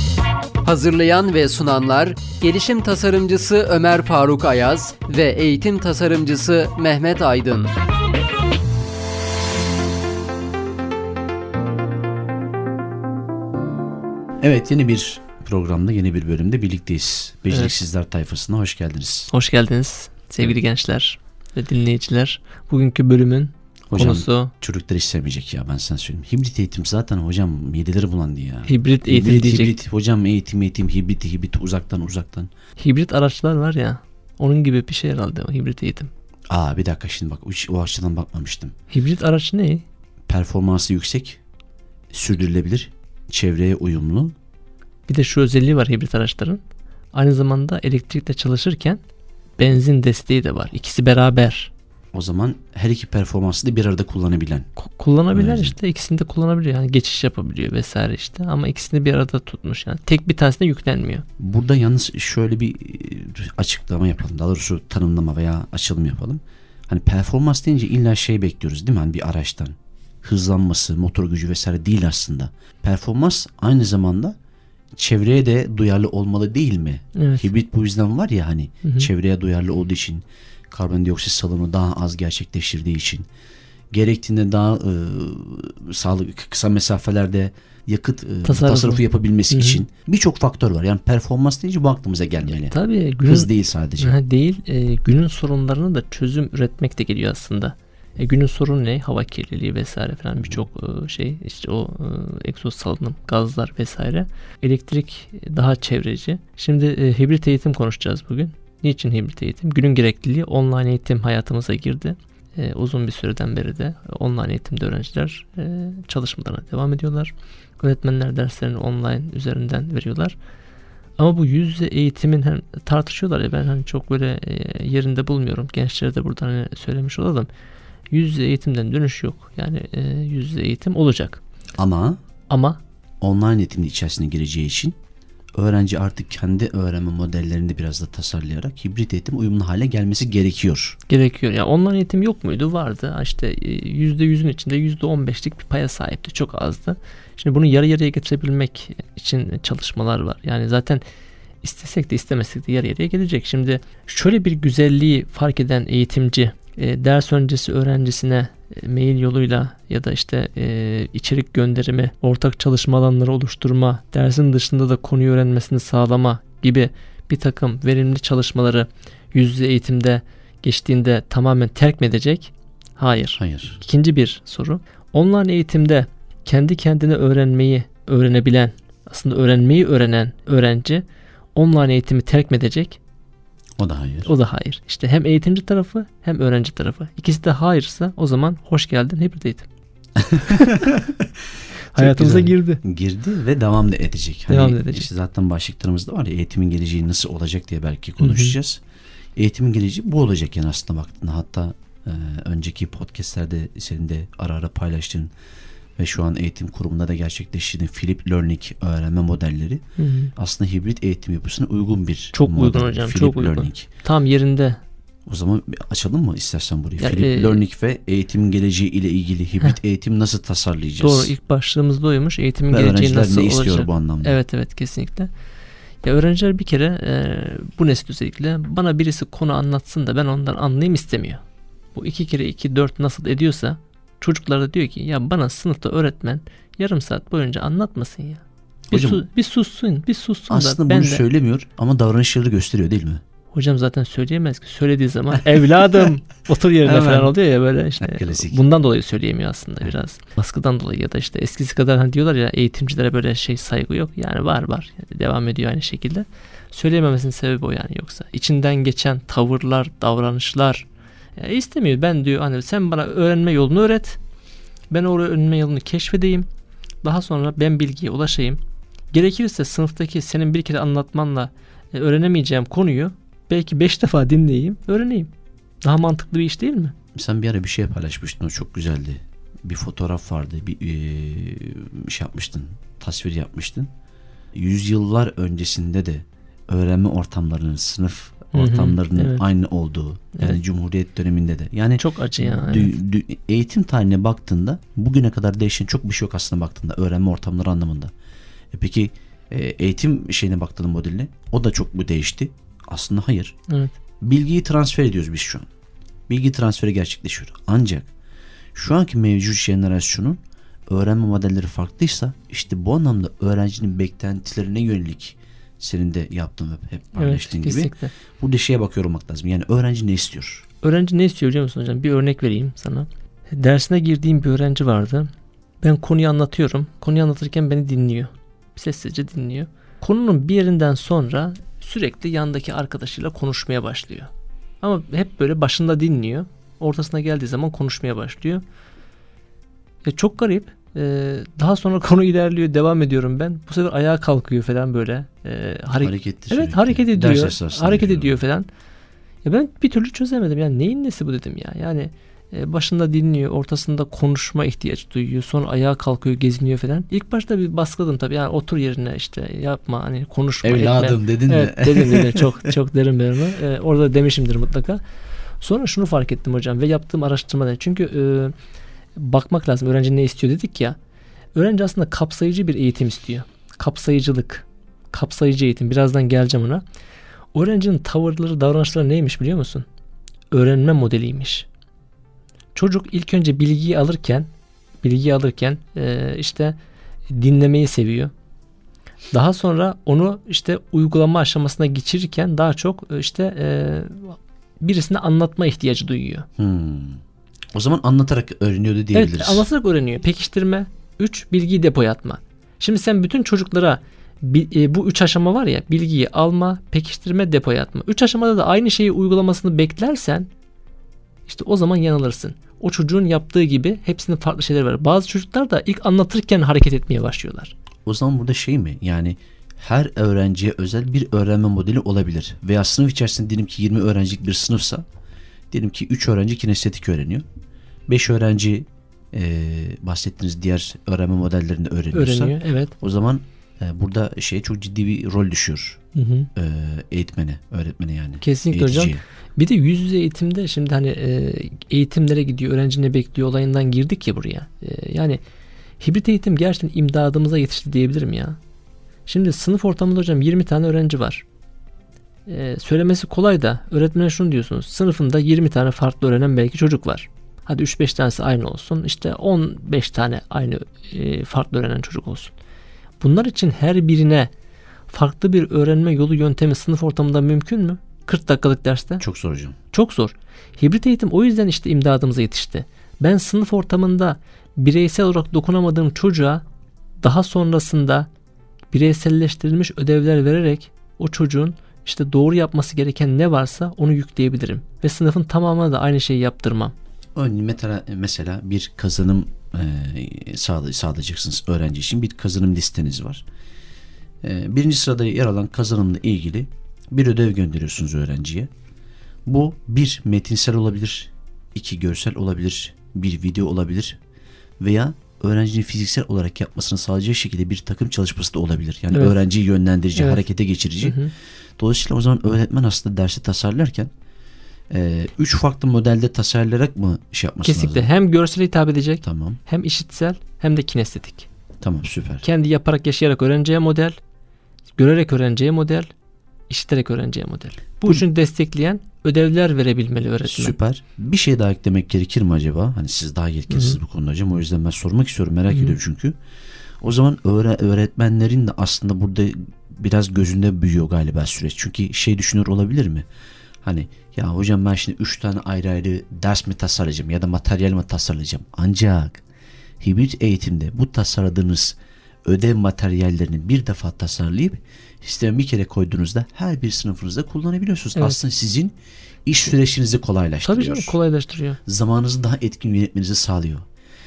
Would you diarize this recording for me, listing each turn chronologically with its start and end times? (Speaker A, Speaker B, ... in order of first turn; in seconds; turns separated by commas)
Speaker A: 0.6-7.7, Speaker B: 14.4-19.3, Speaker C: 17.5-17.7, Speaker C: 19.3-24.5, Speaker B: 23.9-32.5, Speaker C: 28.6-29.8, Speaker C: 32.8-36.1, Speaker B: 36.5-38.7, Speaker C: 38.9-39.8, Speaker B: 40.3-41.4, Speaker B: 42.1-44.3, Speaker C: 45.1-46.6, Speaker C: 47.1-49.0, Speaker C: 49.6-51.7, Speaker B: 52.1-54.7, Speaker C: 54.8-61.2, Speaker B: 55.3-55.8, Speaker B: 61.4-74.3, Speaker B: 74.9-83.2, Speaker C: 77.2-77.5, Speaker C: 78.8-79.1, Speaker B: 83.9-94.2, Speaker C: 88.4-89.8, Speaker C: 92.6-120.4, Speaker C: 121.2-127.5, Speaker C: 128.1-131.4, Speaker B: 131.8-132.2, Speaker C: 132.5-132.8, Speaker B: 133.2-134.9, Speaker B: 135.5-141.0, Speaker C: 141.1-151.0, Speaker C: 151.6-181.0, Speaker B: 173.4-173.8, Speaker C: 181.5-183.0, Speaker B: 183.8-184.3, Speaker C: 184.2-189.7, Speaker B: 190.2-191.3, Speaker C: 191.9-192.8, Speaker B: 191.9-198.8, Speaker C: 194.5-195.1, Speaker C: 198.2-198.6, Speaker B: 199.4-205.3, Speaker B: 206.0-209.8, Speaker C: 210.0-210.3, Speaker B: 210.3-213.9, Speaker C: 212.3-214.8, Speaker B: 215.3-221.3, Speaker C: 217.0-217.6, Speaker C: 221.0-225.3, Speaker B: 222.7-224.4, Speaker C: 226.0-231.4, Speaker C: 231.9-241.2, Speaker B: 238.9-239.2, Speaker B: 240.5-243.2, Speaker C: 243.5-264.2, Speaker B: 246.8-247.3, Speaker B: 248.0-248.6, Speaker C: 264.9-266.5, Speaker C: 267.0-268.6, Speaker C: 269.1-275.3, Speaker C: 275.8-276.9, Speaker B: 277.1-283.9, Speaker B: 284.5-298.1, Speaker C: 288.5-289.5, Speaker C: 292.0-292.9, Speaker B: 298.7-303.5, Speaker C: 303.7-303.9, Speaker B: 304.2-305.6, Speaker B: 306.3-308.1, Speaker B: 308.7-320.6, Speaker C: 317.1-318.1, Speaker C: 320.8-325.3, Speaker C: 325.8-338.6, Speaker C: 340.0-348.7, Speaker B: 345.9-348.4, Speaker C: 349.4-365.0, Speaker B: 360.6-362.7, Speaker C: 365.6-368.5, Speaker C: 369.1-370.9, Speaker C: 371.5-376.8, Speaker C: 377.5-379.9, Speaker C: 380.5-381.7, Speaker C: 382.7-384.5, Speaker C: 385.0-386.8, Speaker C: 387.3-388.3, Speaker C: 389.3-396.5, Speaker B: 396.6-397.2, Speaker B: 397.7-399.7, Speaker C: 399.1-410.5, Speaker C: 411.4-417.7, Speaker B: 418.1-425.0, Speaker B: 425.7-427.4, Speaker B: 428.1-436.0, Speaker C: 432.1-432.9, Speaker C: 436.1-436.5, Speaker B: 436.6-439.2, Speaker C: 438.4-445.4, Speaker C: 446.0-448.6, Speaker C: 449.3-451.4, Speaker C: 452.5-462.5, Speaker C: 463.2-464.5, Speaker C: 465.1-469.2, Speaker B: 469.2-469.8, Speaker C: 469.9-476.6, Speaker C: 477.2-478.3, Speaker C: 478.9-486.9, Speaker B: 487.4-493.4, Speaker B: 494.4-498.7, Speaker B: 499.4-504.2, Speaker B: 504.8-511.2, Speaker C: 510.1-510.4, Speaker C: 511.0-511.3, Speaker B: 511.8-514.1, Speaker B: 514.9-518.1, Speaker C: 517.6-521.5, Speaker B: 519.2-519.6, Speaker B: 521.8-522.4, Speaker C: 522.4-524.1, Speaker C: 525.0-526.1, Speaker C: 526.7-530.7, Speaker B: 530.4-536.4, Speaker C: 533.7-534.0, Speaker C: 535.7-536.0, Speaker B: 537.0-543.2, Speaker B: 543.8-549.4, Speaker B: 550.0-561.2, Speaker C: 558.1-558.4, Speaker C: 560.6-561.8, Speaker B: 561.9-563.8